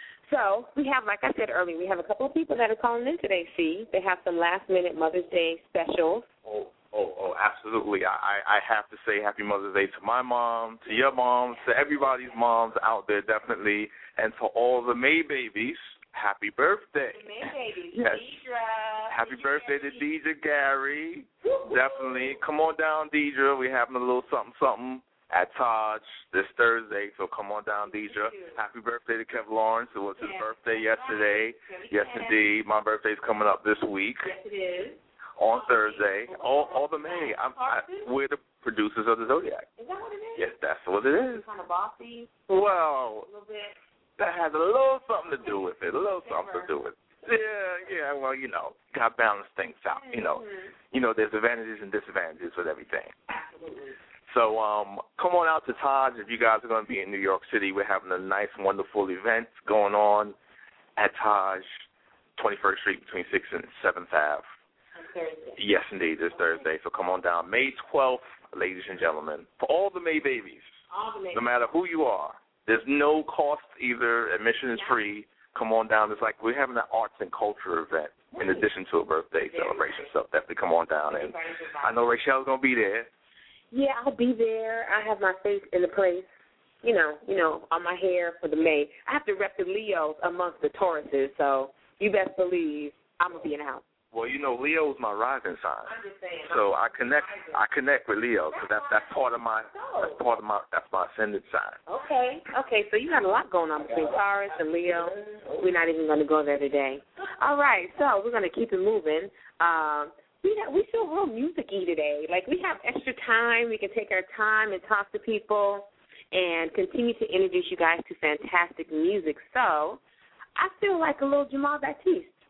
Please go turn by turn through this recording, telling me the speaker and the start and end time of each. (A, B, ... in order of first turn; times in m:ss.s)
0:00.2-0:06.3 A
0:06.4-0:18.3 B
0:17.1-0:20.0 A
0:19.1-0:34.3 B
0:21.4-0:22.4 A
0:27.9-0:28.6 A
0:30.2-0:32.4 A
0:34.2-0:35.0 A
0:35.4-0:39.7 B
0:35.5-0:38.1 A
0:39.8-0:40.5 A
0:40.4-0:41.4 B
0:41.1-0:42.4 A
0:42.5-0:43.3 B
0:43.3-0:43.8 A
0:44.2-0:53.1 B
0:46.2-0:46.7 A
0:49.9-0:50.7 A
0:53.3-0:54.0 A
0:54.3-1:00.4 B
1:01.0-1:01.8 B
1:02.4-1:04.4 B
1:05.0-1:05.6 A
1:05.6-1:10.7 B
1:10.9-1:11.5 A
1:11.3-1:23.1 B
1:18.4-1:18.7 A
1:19.5-1:20.1 A
1:21.1-1:22.0 A
1:23.7-1:26.3 A
1:26.8-1:33.8 A
1:34.1-1:35.9 B
1:35.9-1:37.6 A
1:36.4-1:41.8 B
1:38.5-1:39.1 A
1:39.7-1:40.2 A
1:41.9-2:00.0 A
2:00.6-2:02.4 A